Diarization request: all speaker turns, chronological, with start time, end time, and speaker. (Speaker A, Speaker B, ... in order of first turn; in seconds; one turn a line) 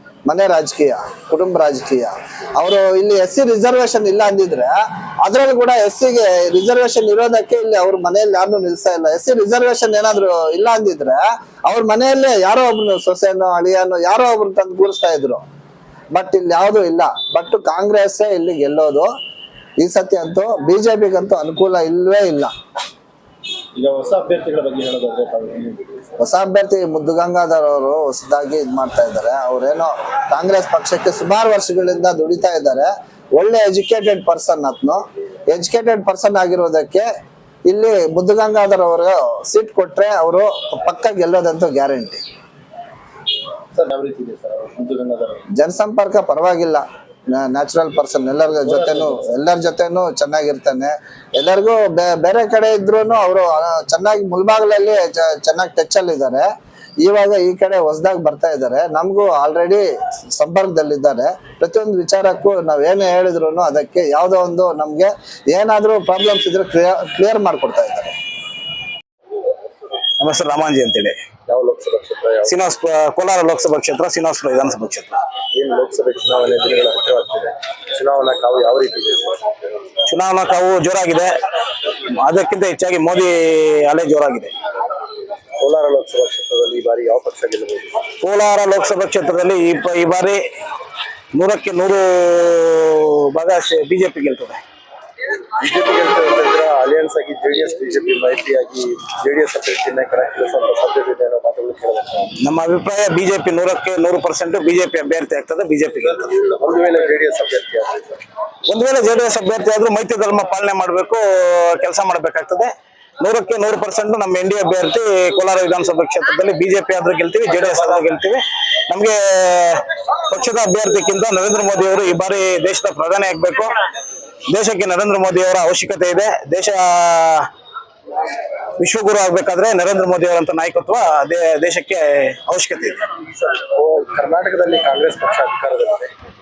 Speaker A: 0.3-15.4
Speaker A: 16.1-19.1
Speaker A: 19.8-22.5
Speaker B: 23.8-26.0
Speaker A: 26.2-37.1
Speaker A: 37.7-42.2
Speaker B: 43.7-45.4
Speaker A: 45.6-56.5
Speaker B: 48.7-49.1
Speaker A: 57.0-68.1
Speaker C: 70.2-71.2
Speaker B: 71.5-72.5
Speaker C: 72.5-75.2
Speaker B: 75.6-79.4
Speaker C: 80.1-81.3
Speaker C: 82.2-84.5
Speaker B: 85.6-87.9
Speaker C: 88.2-90.4
Speaker C: 91.3-94.6
Speaker B: 95.6-102.3
Speaker C: 102.4-106.4
Speaker B: 106.6-108.2
Speaker C: 108.7-123.7
Speaker C: 124.5-127.5
Speaker C: 128.8-133.0
Speaker B: 133.8-136.1